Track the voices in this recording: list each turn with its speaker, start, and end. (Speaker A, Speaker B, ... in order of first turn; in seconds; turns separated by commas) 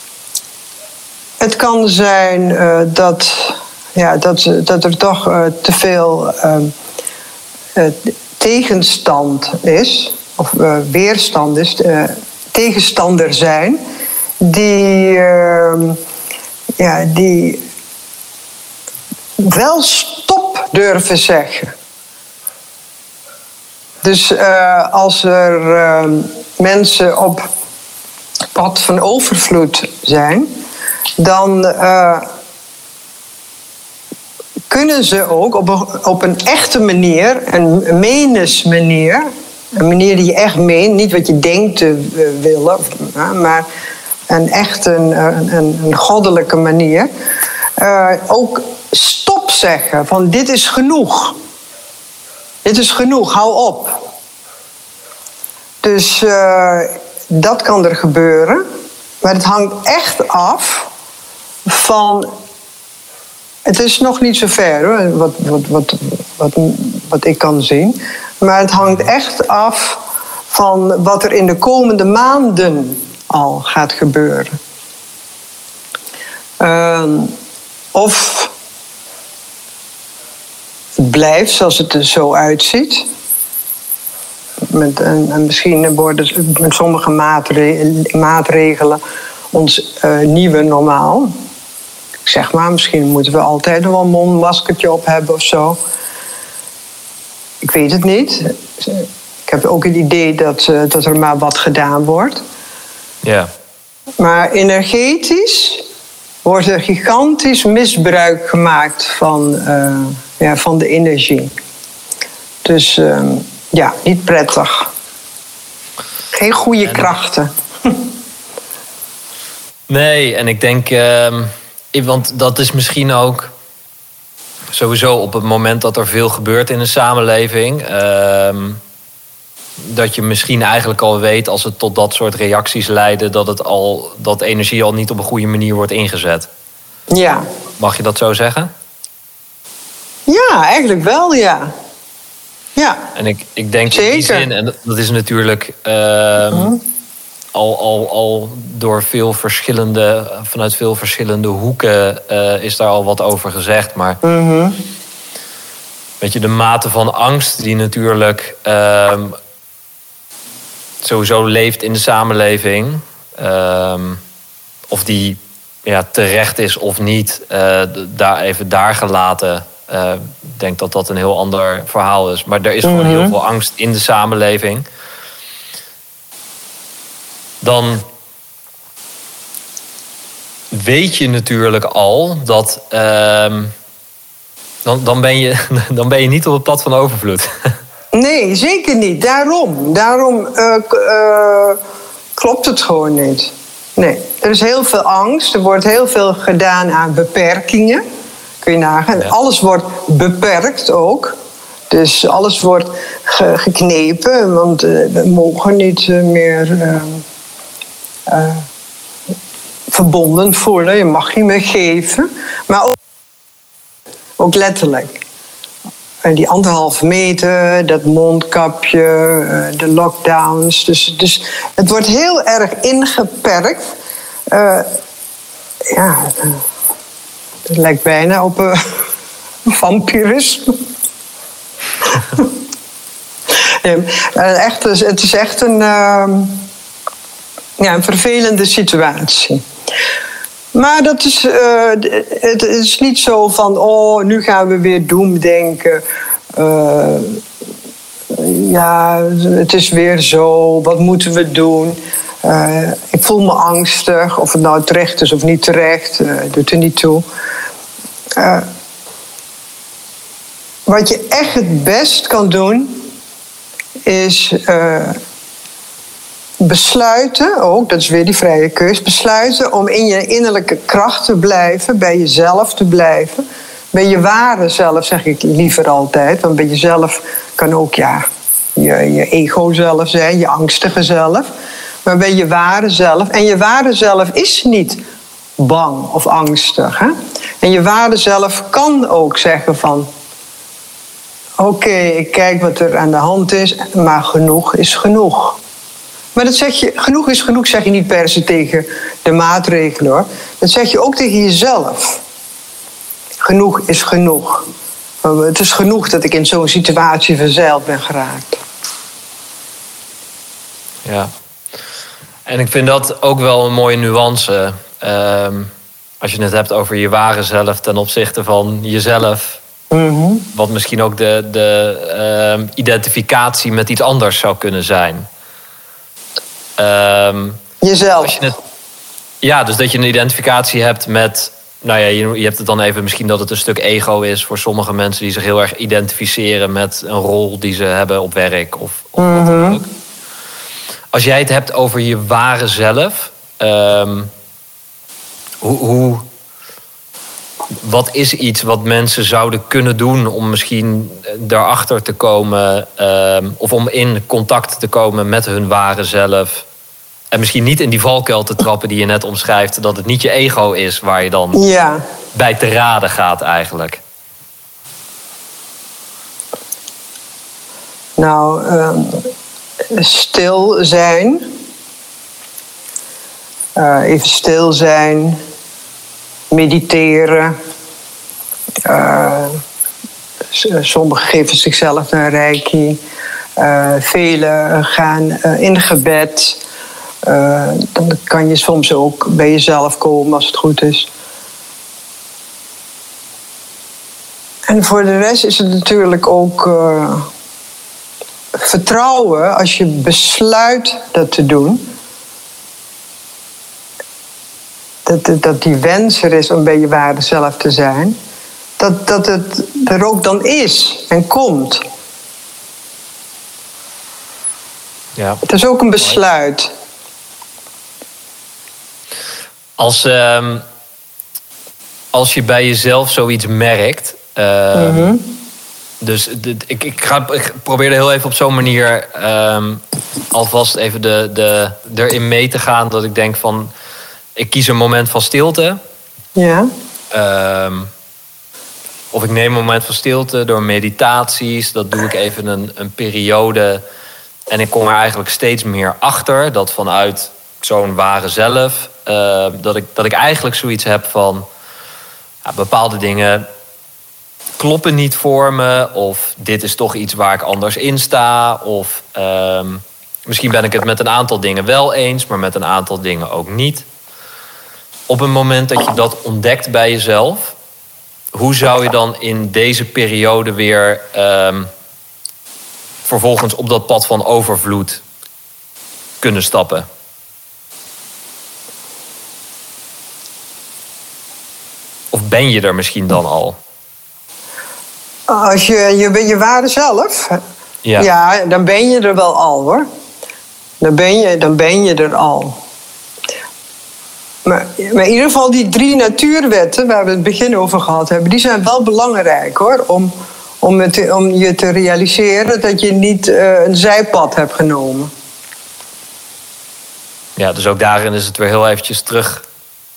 Speaker A: 1.4-6.7, Speaker A: 7.7-13.8, Speaker A: 14.4-16.0, Speaker A: 16.8-17.6, Speaker A: 19.4-21.7, Speaker A: 24.0-27.5, Speaker A: 28.5-30.5, Speaker A: 31.2-32.2, Speaker A: 34.7-43.6, Speaker A: 44.3-47.1, Speaker A: 47.8-51.4, Speaker A: 52.6-54.1, Speaker A: 55.8-58.6, Speaker A: 59.2-60.9, Speaker A: 61.6-62.3, Speaker A: 63.6-74.5, Speaker B: 68.8-69.1, Speaker A: 76.6-77.3, Speaker A: 77.9-78.5, Speaker A: 81.0-83.1, Speaker A: 84.7-89.0, Speaker A: 89.5-91.3, Speaker A: 92.2-95.8, Speaker A: 97.6-102.4, Speaker B: 103.2-103.5, Speaker A: 104.2-105.8, Speaker A: 106.4-111.5, Speaker A: 112.6-114.9, Speaker A: 116.3-118.0, Speaker B: 116.8-117.1, Speaker B: 119.9-123.5, Speaker B: 124.7-128.8, Speaker B: 129.8-136.5, Speaker A: 137.1-137.4, Speaker B: 137.8-138.7, Speaker A: 140.3-141.7, Speaker A: 142.8-143.0, Speaker B: 143.1-146.7, Speaker A: 143.9-144.5, Speaker A: 146.5-146.8, Speaker B: 147.5-154.2, Speaker A: 154.2-154.8, Speaker B: 156.2-159.4, Speaker B: 161.0-164.2, Speaker B: 164.9-174.8, Speaker A: 172.8-173.3, Speaker B: 177.6-178.1, Speaker B: 180.7-183.7, Speaker B: 184.8-187.7, Speaker A: 188.1-191.8, Speaker A: 192.3-198.0, Speaker A: 198.6-201.4, Speaker A: 201.9-207.2, Speaker A: 208.3-208.7, Speaker A: 209.9-212.9, Speaker A: 214.4-215.2, Speaker A: 216.2-223.9, Speaker A: 224.5-224.9, Speaker A: 225.9-226.6, Speaker A: 227.7-229.0, Speaker A: 229.7-230.8, Speaker A: 233.8-236.7, Speaker A: 237.8-239.6, Speaker A: 240.7-247.4, Speaker A: 248.3-257.2, Speaker A: 258.4-258.7, Speaker A: 260.9-263.1, Speaker A: 264.0-265.2, Speaker A: 266.6-281.5, Speaker A: 282.0-285.0, Speaker A: 285.6-290.1, Speaker A: 291.6-295.6, Speaker A: 296.3-302.2, Speaker A: 303.4-304.7, Speaker A: 305.2-308.6, Speaker B: 311.0-311.3, Speaker B: 312.4-319.6, Speaker A: 319.9-320.5, Speaker B: 320.5-325.3, Speaker B: 326.8-328.6, Speaker A: 327.8-328.4, Speaker B: 329.4-339.9, Speaker A: 339.2-339.8, Speaker B: 341.1-344.3, Speaker B: 345.6-346.2, Speaker B: 347.8-356.6, Speaker B: 357.3-361.6, Speaker A: 361.5-362.0, Speaker B: 362.3-364.0, Speaker A: 368.2-369.3, Speaker A: 369.9-371.5, Speaker A: 373.8-375.4, Speaker A: 376.5-377.6, Speaker A: 378.9-379.6, Speaker A: 380.5-383.0, Speaker A: 383.6-386.6, Speaker A: 387.2-391.1, Speaker A: 394.7-397.3, Speaker A: 398.5-401.9, Speaker A: 405.0-408.1, Speaker A: 408.8-411.8, Speaker B: 415.1-415.4, Speaker A: 415.4-416.7, Speaker B: 419.8-420.6, Speaker B: 422.1-425.1, Speaker A: 424.7-425.2, Speaker B: 426.0-429.8, Speaker B: 430.3-433.7, Speaker B: 434.4-435.8, Speaker A: 436.4-436.7, Speaker B: 437.1-437.9, Speaker B: 439.1-443.8, Speaker B: 444.5-451.4, Speaker B: 452.4-453.5, Speaker B: 454.6-463.9, Speaker B: 465.1-467.6, Speaker B: 468.3-471.7, Speaker B: 473.0-475.0, Speaker B: 476.2-476.9, Speaker B: 482.1-483.6, Speaker A: 485.3-487.4, Speaker A: 488.0-489.9, Speaker A: 490.8-492.6, Speaker A: 494.4-505.1, Speaker B: 507.4-509.4